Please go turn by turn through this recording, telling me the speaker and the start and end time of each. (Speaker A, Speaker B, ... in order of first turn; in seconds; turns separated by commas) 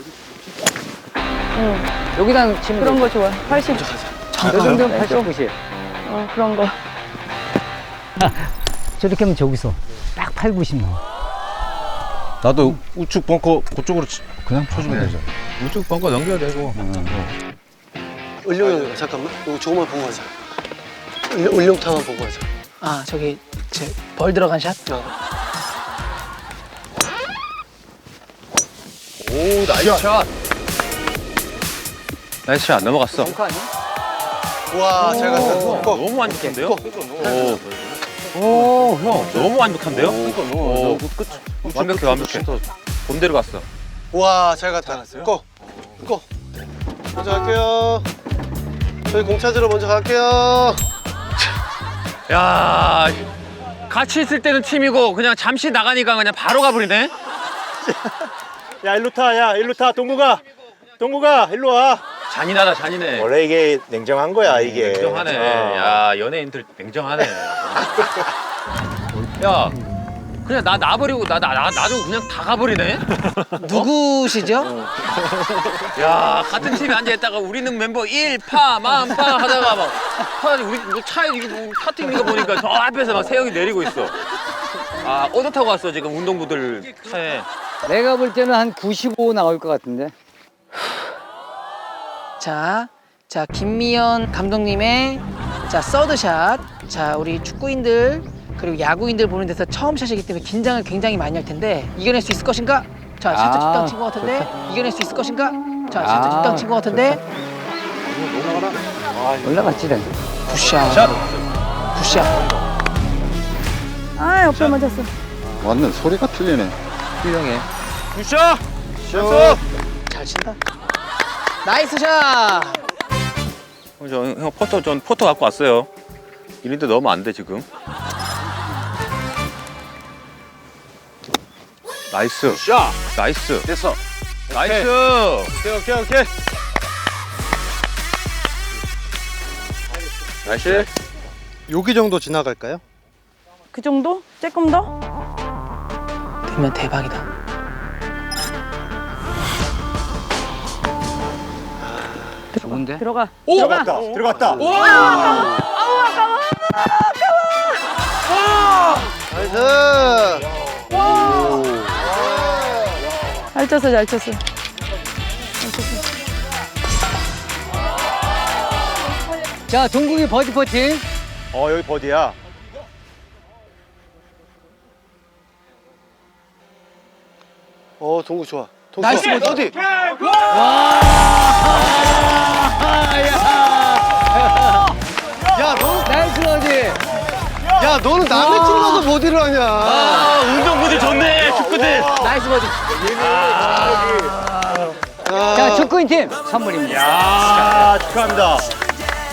Speaker A: 1.5-1.9, Speaker B: 2.1-3.1, Speaker A: 2.8-3.9, Speaker C: 3.6-4.8, Speaker D: 4.3-5.1, Speaker B: 4.4-5.5, Speaker A: 5.0-5.3, Speaker E: 5.7-6.1, Speaker A: 6.0-6.8, Speaker B: 8.2-11.0, Speaker F: 12.4-15.2, Speaker B: 14.4-15.0, Speaker E: 14.8-16.8, Speaker C: 18.4-20.3, Speaker C: 21.3-22.5, Speaker D: 22.8-24.9, Speaker E: 29.2-30.3, Speaker E: 32.5-33.3, Speaker B: 33.2-33.7, Speaker C: 34.7-36.1, Speaker E: 35.0-43.7, Speaker B: 35.4-36.5, Speaker C: 36.6-37.6, Speaker F: 39.9-41.1, Speaker C: 40.1-40.5, Speaker F: 41.7-42.5, Speaker C: 44.1-45.5, Speaker C: 46.0-46.3, Speaker C: 47.1-48.1, Speaker C: 49.1-50.8, Speaker E: 52.3-53.3, Speaker E: 53.9-57.1, Speaker G: 58.8-60.4, Speaker G: 61.0-62.1, Speaker E: 62.3-63.3, Speaker G: 63.1-66.0, Speaker E: 64.4-68.3, Speaker E: 69.4-69.8, Speaker E: 70.4-73.1, Speaker D: 73.6-74.7, Speaker E: 75.9-84.2, Speaker E: 85.0-87.5, Speaker B: 87.8-90.1, Speaker D: 92.4-107.2, Speaker B: 103.3-104.5, Speaker B: 106.0-107.2, Speaker B: 109.4-110.1, Speaker D: 110.5-111.2, Speaker E: 110.9-111.2, Speaker D: 111.9-112.4, Speaker A: 114.2-115.1, Speaker F: 115.6-116.8, Speaker B: 117.2-117.7, Speaker E: 118.1-119.6, Speaker C: 119.1-119.6, Speaker D: 120.1-120.6, Speaker D: 121.6-122.8, Speaker E: 124.0-125.9, Speaker E: 126.6-127.7, Speaker E: 132.1-133.7, Speaker E: 134.5-135.6, Speaker C: 135.8-136.2, Speaker E: 140.4-140.9, Speaker C: 141.7-142.8, Speaker A: 143.7-144.9, Speaker D: 146.4-147.2, Speaker C: 151.8-152.5, Speaker A: 152.6-157.7, Speaker B: 152.6-153.1, Speaker G: 153.5-154.7, Speaker C: 154.3-155.5, Speaker C: 159.3-163.0, Speaker A: 161.0-161.6, Speaker A: 163.5-164.4, Speaker A: 165.6-166.1, Speaker B: 169.7-171.0, Speaker G: 171.5-172.4, Speaker C: 178.0-179.8, Speaker D: 179.0-179.7, Speaker B: 180.5-184.9, Speaker C: 185.5-186.1, Speaker B: 186.0-187.0, Speaker C: 187.8-190.4, Speaker B: 188.6-189.1, Speaker E: 189.8-192.2, Speaker D: 192.2-193.0, Speaker E: 193.0-194.4, Speaker C: 195.2-195.9, Speaker B: 195.5-197.4, Speaker E: 197.1-197.8, Speaker G: 197.2-198.7